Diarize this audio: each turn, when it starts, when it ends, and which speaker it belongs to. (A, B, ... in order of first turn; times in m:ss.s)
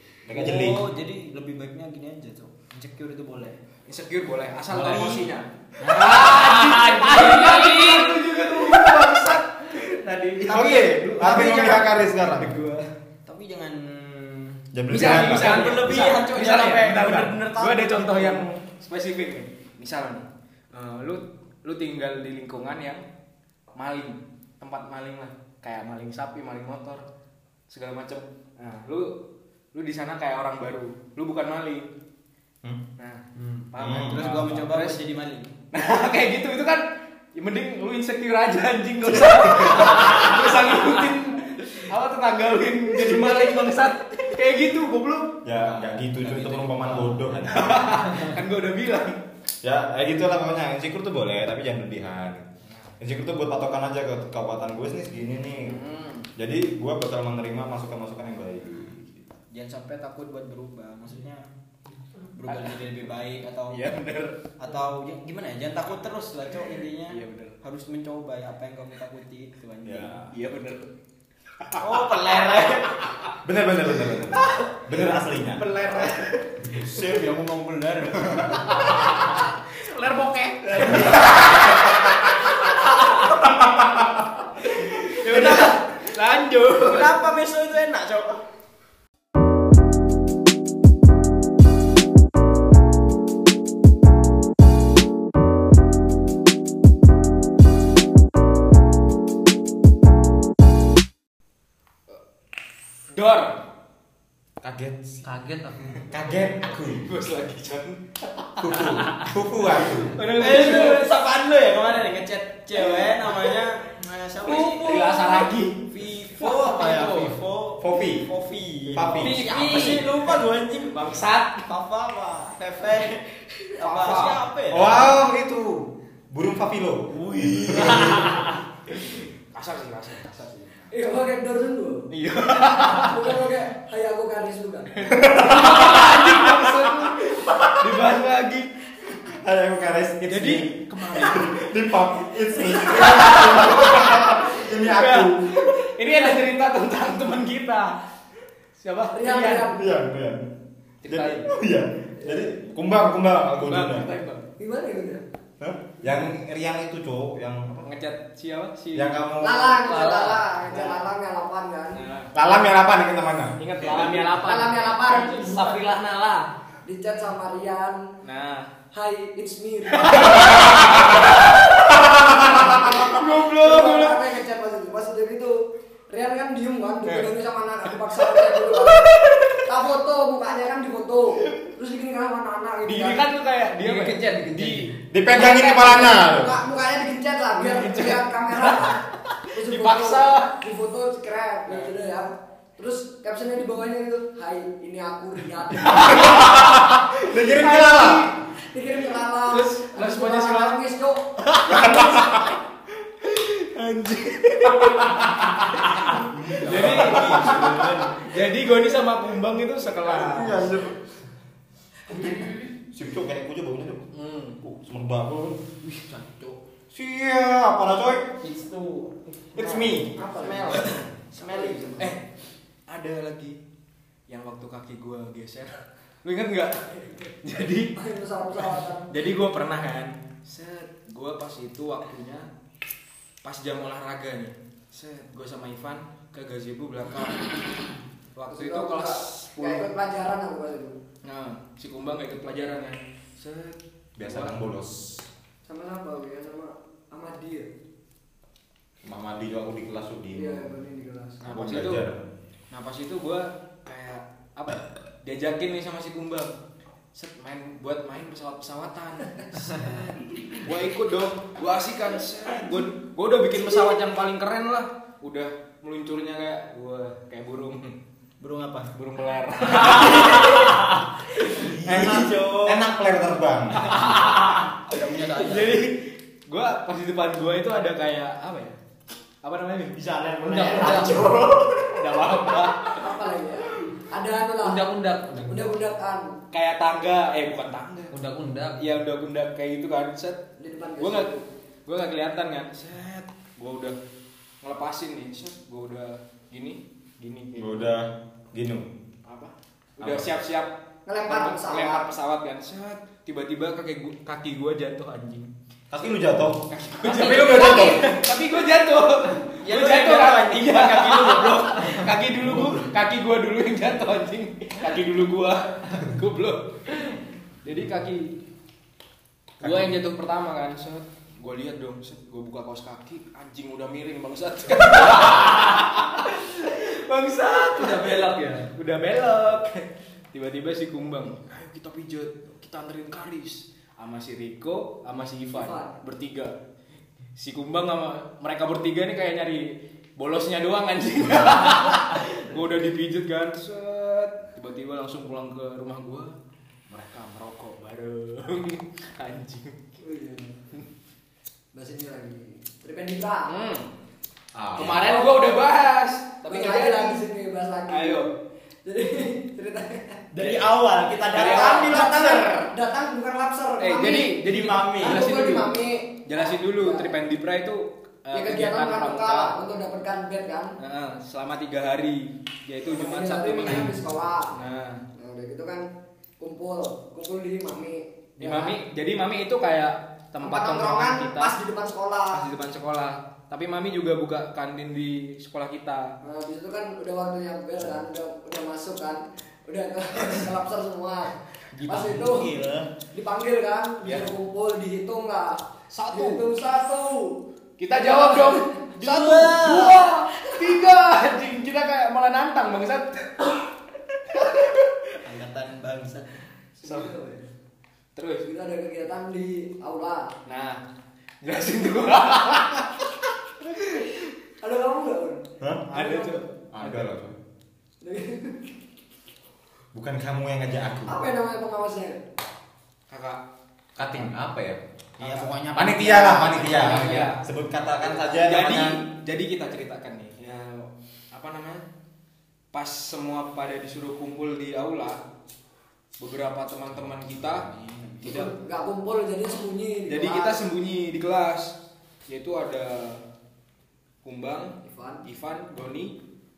0:00.3-0:00.9 A
0:00.3-0:03.6 B
0:03.8-0:12.8 C
0:04.7-0:09.2 B
0:09.8-0:11.3 B
0:10.4-0:12.6 A
0:13.2-0:17.4 B
0:14.7-0:15.9 A
0:14.9-0:23.0 C
0:17.4-0:18.6 A
0:23.8-0:27.0 C
0:27.7-0:29.1 C
0:29.7-0:31.9 C
0:33.0-0:35.0 C
0:33.8-0:34.4 A
0:33.8-0:35.5 B
0:35.7-0:46.6 C
0:39.6-0:40.1 A
0:45.4-0:48.2 A
0:46.4-0:46.9 B
0:47.5-0:49.2 C
0:49.6-0:52.4 A
0:53.0-0:55.8 A
0:55.8-0:56.1 C
0:56.4-0:59.3 A
0:59.5-1:01.5 B
1:02.3-1:04.0 B
1:02.4-1:03.1 C
1:03.7-1:04.4 C
1:04.6-1:10.2 B
1:07.1-1:07.6 C
1:09.8-1:10.3 A
1:10.3-1:10.9 C
1:11.6-1:13.4 C
1:11.8-1:12.9 B
1:13.3-1:15.6 A
1:15.6-1:16.9 C
1:15.6-1:16.1 B
1:16.7-1:17.1 A
1:16.7-1:19.0 B
1:18.2-1:18.6 A
1:18.7-1:22.0 C
1:20.6-1:21.5 B
1:20.8-1:21.9 A
1:22.9-1:23.4 C
1:23.2-1:24.4 A
1:24.6-1:27.1 C
1:25.2-1:25.9 B
1:26.8-1:28.4 B
1:43.1-1:43.6 C
1:44.6-1:45.2 A
1:45.2-1:46.2 D
1:46.1-1:47.0 A
1:46.7-1:51.1 C
1:48.6-1:50.2 A
1:50.3-2:05.1 B
1:52.8-1:53.4 C
1:54.4-1:57.3 C
1:57.8-1:58.3 A
1:58.9-2:00.2 A
1:59.2-2:00.0 C
2:00.9-2:01.7 C
2:03.8-2:04.4 C
2:04.7-2:08.5 A
2:07.1-2:10.9 C
2:10.9-2:12.1 E
2:12.1-2:13.4 C
2:12.8-2:15.2 E
2:15.0-2:18.7 C
2:15.1-2:18.0 A
2:19.3-2:25.6 A
2:20.3-2:21.7 C
2:22.8-2:28.0 C
2:28.8-2:29.7 C
2:29.1-2:29.8 E
2:29.7-2:30.5 A
2:31.0-2:31.5 C
2:31.1-2:34.1 A
2:32.2-2:32.5 E
2:33.6-2:34.4 C
2:34.6-2:35.2 E
2:35.6-2:37.8 A
2:37.8-2:39.1 C
2:38.9-2:40.0 A
2:39.4-2:42.0 E
2:39.8-2:41.1 C
2:41.9-2:42.3 C
2:42.3-2:44.1 A
2:43.6-2:46.5 C
2:44.1-2:46.0 E
2:46.8-2:48.0 E
2:48.2-2:48.7 C
2:48.9-2:50.8 E
2:49.9-2:54.2 C
2:50.2-2:53.0 A
2:52.3-3:03.3 E
2:57.0-2:57.3 C
2:58.2-2:59.6 C
3:02.8-3:04.8 C
3:03.9-3:04.8 B
3:04.1-3:04.7 D
3:04.7-3:06.6 A
3:05.3-3:22.1 E
3:07.6-3:10.5 C
3:11.7-3:11.9 C
3:15.9-3:18.3 A
3:19.5-3:20.8 C
3:21.5-3:22.3 C
3:21.7-3:22.6 A
3:23.4-3:30.7 C
3:24.3-3:25.8 A
3:26.4-3:28.3 B
3:26.7-3:28.0 A
3:30.0-3:31.0 A
3:32.1-3:32.4 E
3:32.1-3:34.1 A
3:34.1-3:34.6 C
3:34.6-3:35.6 A
3:35.8-3:36.5 B
3:36.9-3:38.3 A
3:38.4-3:39.7 B
3:39.5-3:40.1 A
3:39.6-3:42.0 E
3:40.3-3:42.1 B
3:42.0-3:42.2 C
3:42.9-3:43.6 C
3:44.3-3:47.9 C
3:48.0-3:49.1 E
3:49.1-3:52.5 C
3:53.4-3:57.6 C
3:58.3-3:59.9 C
3:58.5-4:01.0 E
4:01.2-4:04.6 C
4:04.2-4:05.1 A
4:05.7-4:07.7 E
4:09.0-4:10.7 A
4:10.3-4:11.4 E
4:11.4-4:12.0 C
4:11.4-4:12.3 A
4:12.7-4:16.6 C
4:17.1-4:28.0 C
4:28.4-4:28.9 B
4:28.9-4:30.9 C
4:29.8-4:30.7 B
4:31.4-4:32.8 B
4:31.8-4:34.2 A
4:33.8-4:38.8 C
4:34.9-4:35.8 B
4:39.4-4:41.4 C
4:40.4-4:41.5 B
4:40.5-4:42.0 A
4:41.9-4:43.0 C
4:43.0-4:46.3 E
4:44.6-4:45.8 D
4:46.5-4:48.2 C
4:48.1-4:48.8 D
4:48.7-4:50.4 C
4:50.6-4:51.4 E
4:51.0-4:51.3 C
4:51.8-4:54.0 C
4:54.6-4:57.9 C
4:57.5-4:58.9 A
4:59.2-5:00.7 C
5:00.0-5:00.3 A
5:01.0-5:02.1 E
5:01.2-5:05.5 C
5:05.9-5:08.0 A
5:06.7-5:18.4 C
5:07.3-5:08.0 E
5:09.6-5:11.9 B
5:19.6-5:36.5 C
5:19.6-5:19.9 A
5:27.7-5:28.7 D
5:35.5-5:36.0 E
5:37.4-5:46.4 C
5:46.9-5:50.0 C
5:50.0-5:50.6 E
5:51.7-5:53.5 E
5:53.5-5:53.8 C
5:54.5-5:55.3 A
5:54.8-5:57.2 C
5:56.5-5:58.3 E
5:57.9-5:58.3 C
5:58.8-6:00.2 E
6:00.3-6:02.5 B
6:01.3-6:02.5 C
6:01.4-6:07.2 E
6:03.8-6:09.6 C
6:04.6-6:05.1 B
6:08.3-6:10.7 E
6:10.8-6:13.9 C
6:12.9-6:14.5 E
6:14.5-6:15.0 C
6:15.2-6:15.8 E
6:16.4-6:18.8 E
6:18.4-6:21.6 C
6:20.4-6:22.4 E
6:22.3-6:26.1 C
6:26.2-6:31.3 E
6:31.8-6:32.9 B
6:31.8-6:32.5 E
6:33.1-6:35.6 E
6:35.9-6:36.4 C
6:36.1-6:37.4 E
6:37.8-6:43.5 C
6:38.1-6:38.6 E
6:39.0-6:40.1 B
6:45.2-6:46.4 B
6:46.8-6:47.5 E
6:46.8-6:47.1 C
6:48.1-6:48.5 C
6:48.4-6:50.3 E
6:50.4-6:50.8 C
6:51.4-6:53.0 C
6:54.6-6:55.4 E
6:55.6-6:56.2 A
6:55.9-6:57.1 C
6:56.7-6:57.4 A
6:58.0-6:58.6 E
6:59.9-7:01.3 A
7:01.1-7:02.2 E
7:03.1-7:03.4 C
7:04.0-7:08.9 A
7:04.0-7:04.3 C
7:05.2-7:07.2 B
7:06.7-7:07.4 C
7:08.2-7:11.8 C
7:12.7-7:15.2 C
7:16.2-7:17.7 C
7:17.4-7:18.5 B
7:18.2-7:18.5 C
7:18.2-7:20.6 E
7:20.1-7:21.7 C
7:22.3-7:23.2 C
7:24.2-7:26.2 C
7:24.8-7:25.2 E